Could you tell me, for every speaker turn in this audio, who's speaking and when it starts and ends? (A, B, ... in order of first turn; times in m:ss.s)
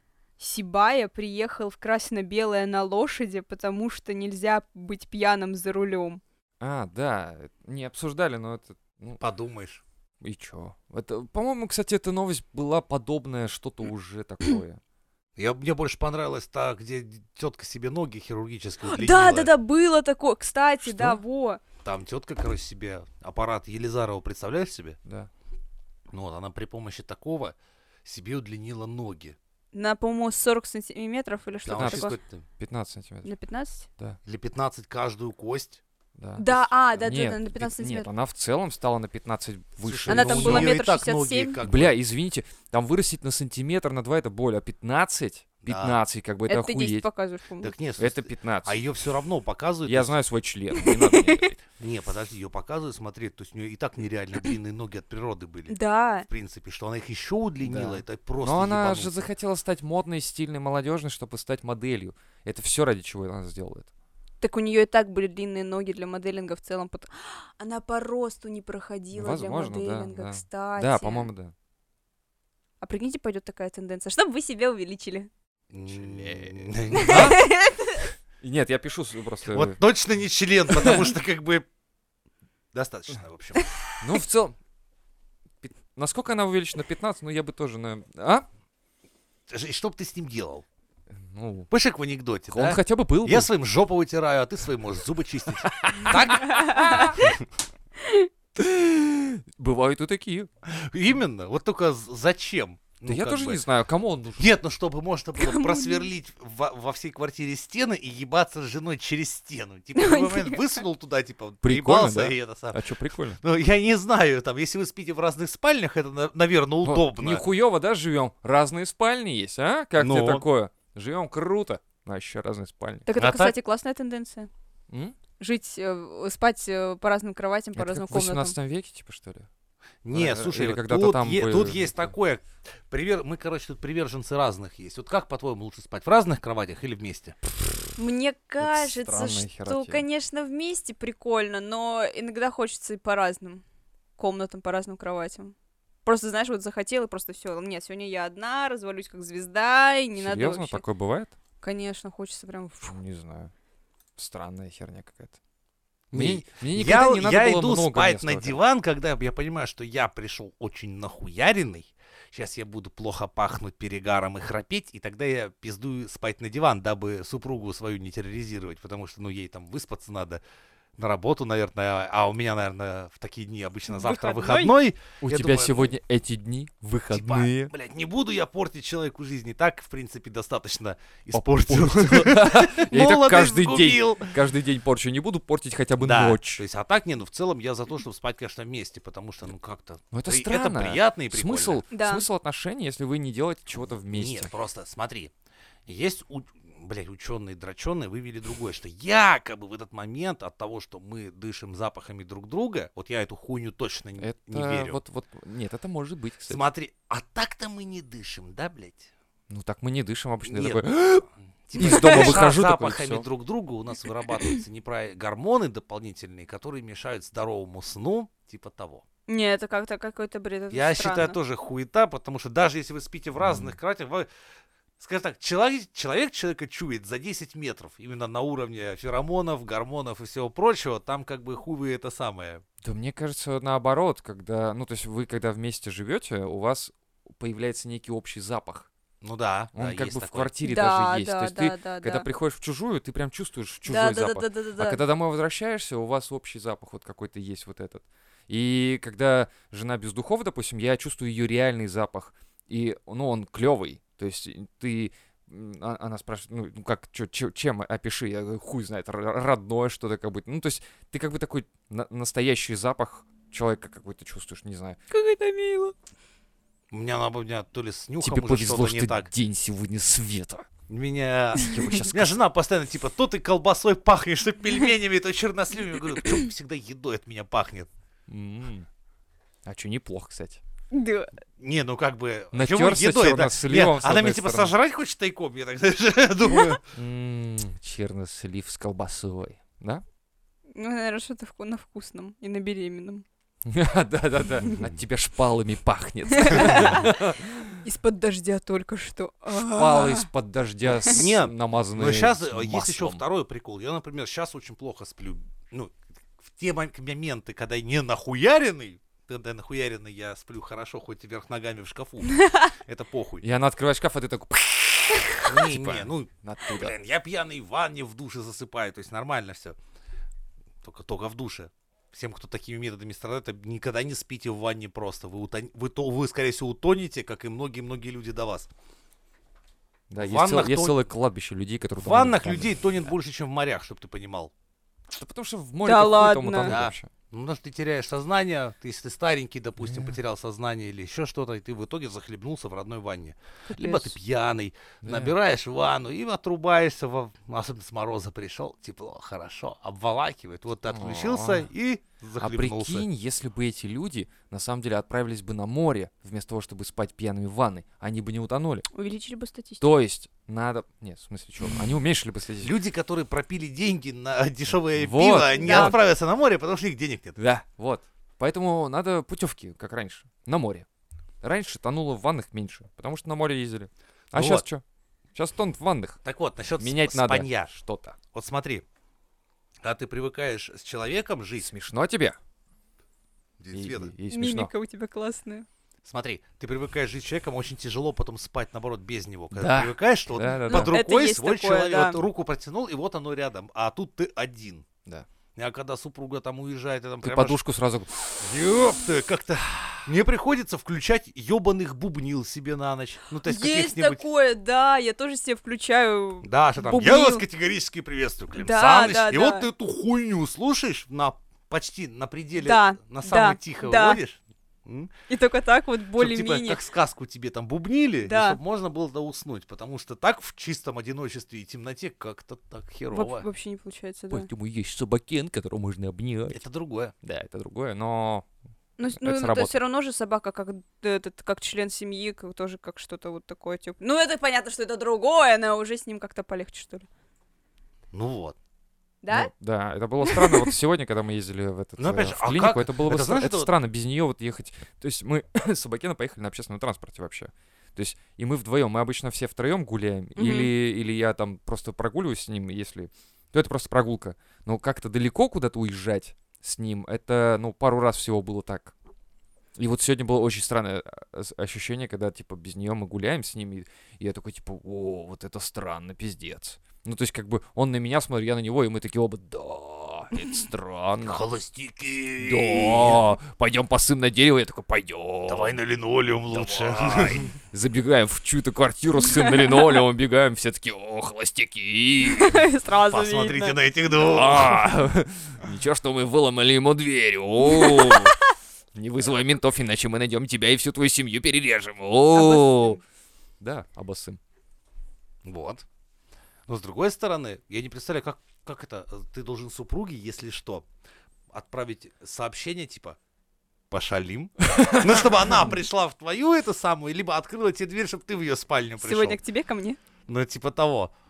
0:00.4-0:06.2 A
0:06.6-0:09.2 B
0:09.2-0:09.8 C
0:10.2-0:14.8 B
0:15.4-0:19.5 C
0:18.8-0:21.6 A
0:20.8-0:21.2 B
0:21.8-0:25.0 C
0:25.0-0:25.3 B
0:26.1-0:29.4 C
0:29.7-0:32.2 A
0:31.6-0:32.4 C
0:31.7-0:33.3 B
0:33.2-0:33.9 A
0:34.2-0:35.8 C
0:36.2-0:40.8 B
0:36.4-0:38.1 A
0:39.8-0:42.0 C
0:40.1-0:41.6 A
0:41.6-0:47.0 B
0:45.6-0:46.0 C
0:46.5-0:47.7 A
0:47.6-0:50.2 C
0:48.0-0:48.8 B
0:49.8-0:51.6 B
0:50.8-0:51.5 A
0:51.8-0:59.2 C
0:55.7-0:56.3 A
0:57.6-1:03.9 B
1:04.4-1:11.3 A
1:09.1-1:11.5 B
1:12.8-1:15.3 A
1:15.7-1:17.4 C
1:15.9-1:17.6 B
1:17.0-1:18.0 A
1:18.4-1:19.8 B
1:19.5-1:21.7 C
1:20.7-1:21.1 B
1:22.7-1:23.7 C
1:24.0-1:24.6 B
1:25.6-1:28.4 B
1:29.5-1:30.6 C
1:31.2-1:31.7 B
1:31.7-1:37.3 C
1:32.5-1:33.5 B
1:35.7-1:36.5 B
1:36.5-1:37.2 A
1:38.0-1:38.3 A
1:38.6-1:40.5 B
1:40.6-1:43.6 C
1:43.0-1:44.5 B
1:44.4-1:52.8 C
1:45.4-1:46.1 A
1:49.9-1:50.8 A
1:51.6-1:53.4 B
1:53.4-1:57.4 C
1:56.8-2:03.1 B
2:00.0-2:00.4 C
2:03.0-2:04.5 A
2:03.1-2:03.5 C
2:04.9-2:05.2 B
2:05.4-2:08.6 A
2:07.7-2:09.5 B
2:10.0-2:17.4 C
2:10.1-2:12.1 B
2:17.5-2:17.9 B
2:18.0-2:23.6 A
2:18.6-2:20.0 B
2:24.2-2:25.5 A
2:26.0-2:30.8 A
2:30.2-2:31.3 B
2:31.6-2:33.0 A
2:32.9-2:33.5 B
2:34.2-2:35.4 B
2:36.1-2:50.4 C
2:36.1-2:38.6 B
2:51.0-2:55.9 C
2:53.9-2:54.7 A
2:55.2-2:57.7 B
2:57.1-3:04.3 C
3:01.3-3:06.6 B
3:06.0-3:11.8 C
3:10.1-3:14.5 B
3:11.9-3:12.2 A
3:14.1-3:15.3 C
3:15.9-3:25.0 C
3:24.2-3:26.6 B
3:26.5-3:29.1 C
3:29.5-3:31.3 B
3:30.4-3:30.8 C
3:31.7-3:39.0 C
3:31.8-3:33.2 B
3:31.8-3:32.4 A
3:39.3-3:41.4 A
3:40.7-3:44.3 C
3:43.4-3:43.8 B
3:45.0-3:52.6 C
3:52.8-3:58.9 B
3:59.2-4:00.5 C
3:59.7-4:25.0 B
4:00.6-4:02.3 A
4:03.8-4:05.0 A
4:25.1-4:25.9 A
4:26.9-4:29.3 C
4:28.2-4:30.7 B
4:30.9-4:37.9 C
4:31.5-4:32.4 B
4:38.3-4:38.9 B
4:39.6-4:40.6 B
4:40.9-4:41.4 A
4:41.6-4:46.8 C
4:42.5-4:44.7 B
4:47.0-4:50.0 B
4:50.7-4:53.2 A
4:53.6-4:57.8 B
4:56.3-4:57.1 A
4:57.7-5:00.3 A
4:59.5-5:03.2 B
5:00.9-5:13.4 C
5:13.4-5:16.9 B
5:15.4-5:19.8 C
5:20.8-5:28.7 C
5:30.1-5:33.1 B
5:30.2-5:31.0 C
5:32.0-5:34.5 C
5:35.1-5:37.1 B
5:35.8-5:36.8 A
5:36.6-5:53.0 C
5:39.8-5:40.2 B
5:43.7-5:44.1 A
5:45.0-5:45.3 B
5:50.9-5:51.7 B
5:52.4-5:58.9 B
5:58.9-5:59.8 A
5:59.8-6:02.7 B
6:02.6-6:07.4 C
6:04.9-6:06.0 B
6:05.4-6:06.0 A
6:07.4-6:10.8 B
6:11.4-6:14.8 B
6:14.3-6:14.6 C
6:15.3-6:16.2 B
6:16.2-6:17.7 C
6:16.8-6:18.2 B
6:18.3-6:18.8 C
6:19.8-6:21.7 C
6:21.6-6:22.4 B
6:23.6-6:24.1 C
6:23.7-6:24.7 B
6:24.3-6:25.7 A
6:26.0-6:34.8 C
6:29.5-6:31.0 B
6:30.7-6:32.2 A
6:35.6-6:37.6 C
6:37.2-6:38.4 B
6:38.4-6:44.2 C
6:39.7-6:40.0 B
6:43.4-6:47.4 A
6:46.4-6:55.1 C
6:48.6-6:49.7 A
6:52.6-6:54.2 A
6:55.3-6:56.8 A
6:56.2-7:03.5 C
6:58.2-6:58.6 A
7:03.1-7:04.5 A
7:04.3-7:06.6 B
7:06.5-7:07.1 C
7:07.2-7:08.4 B
7:09.0-7:17.1 A
7:09.1-7:09.8 B
7:18.1-7:18.6 C
7:19.2-7:19.5 A
7:19.3-7:38.9 B
7:20.2-7:20.7 A
7:22.0-7:23.7 C
7:30.4-7:30.7 A
7:39.7-7:51.5 B
7:51.2-7:53.3 C
7:52.4-7:55.8 B
7:55.4-7:57.5 C
7:56.5-8:02.6 B
7:59.2-8:00.0 A
8:02.2-8:03.8 A
8:03.1-8:04.8 C
8:04.2-8:08.4 B
8:07.8-8:08.3 A
8:08.9-8:13.0 B
8:12.3-8:13.0 A
8:13.6-8:14.4 B
8:15.4-8:15.8 C
8:16.7-8:20.8 C
8:21.5-8:23.2 C
8:23.9-8:29.4 C
8:24.8-8:25.3 B
8:29.0-8:30.0 A
8:30.3-8:31.1 C